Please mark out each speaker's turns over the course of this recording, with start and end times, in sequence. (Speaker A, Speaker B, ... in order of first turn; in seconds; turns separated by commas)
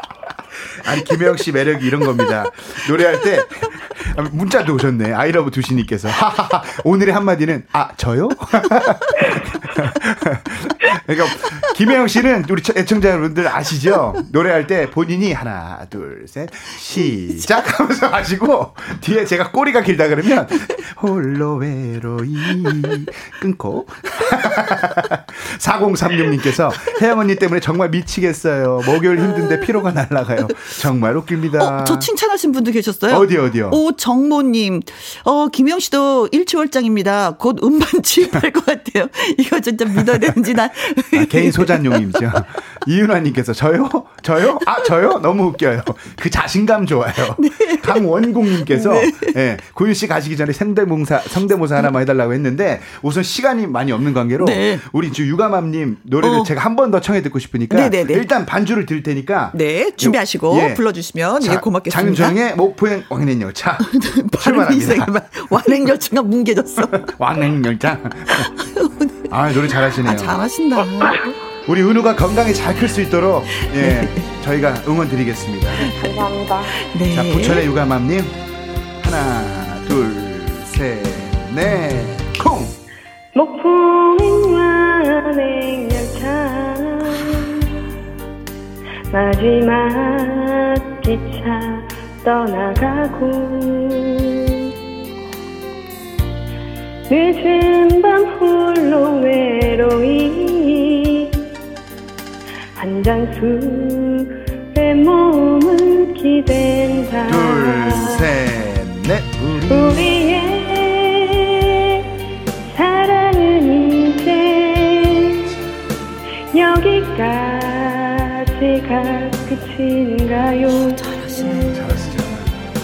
Speaker A: 0.8-32.1, Speaker B: 22.6-22.9, Speaker B: 29.3-29.6, Speaker B: 31.6-42.2, Speaker A: 33.1-33.8, Speaker A: 40.0-40.4, Speaker A: 41.1-60.8, Speaker B: 47.4-49.4, Speaker B: 54.4-54.8, Speaker B: 56.2-56.5, Speaker B: 57.7-58.3, Speaker B: 59.5-62.4, Speaker A: 61.4-65.7, Speaker B: 63.8-67.1, Speaker A: 66.9-68.5, Speaker B: 68.3-71.2, Speaker A: 69.3-70.4, Speaker A: 71.7-76.0, Speaker B: 73.5-74.2, Speaker C: 75.8-76.9, Speaker B: 76.7-77.7, Speaker A: 77.1-78.3, Speaker A: 79.0-82.7, Speaker C: 83.3-87.7, Speaker C: 89.1-94.7, Speaker C: 97.1-101.4, Speaker C: 102.8-108.3, Speaker A: 107.3-110.1, Speaker C: 109.7-112.0, Speaker C: 112.7-115.5, Speaker C: 116.5-121.1, Speaker B: 120.7-122.0, Speaker A: 121.7-122.6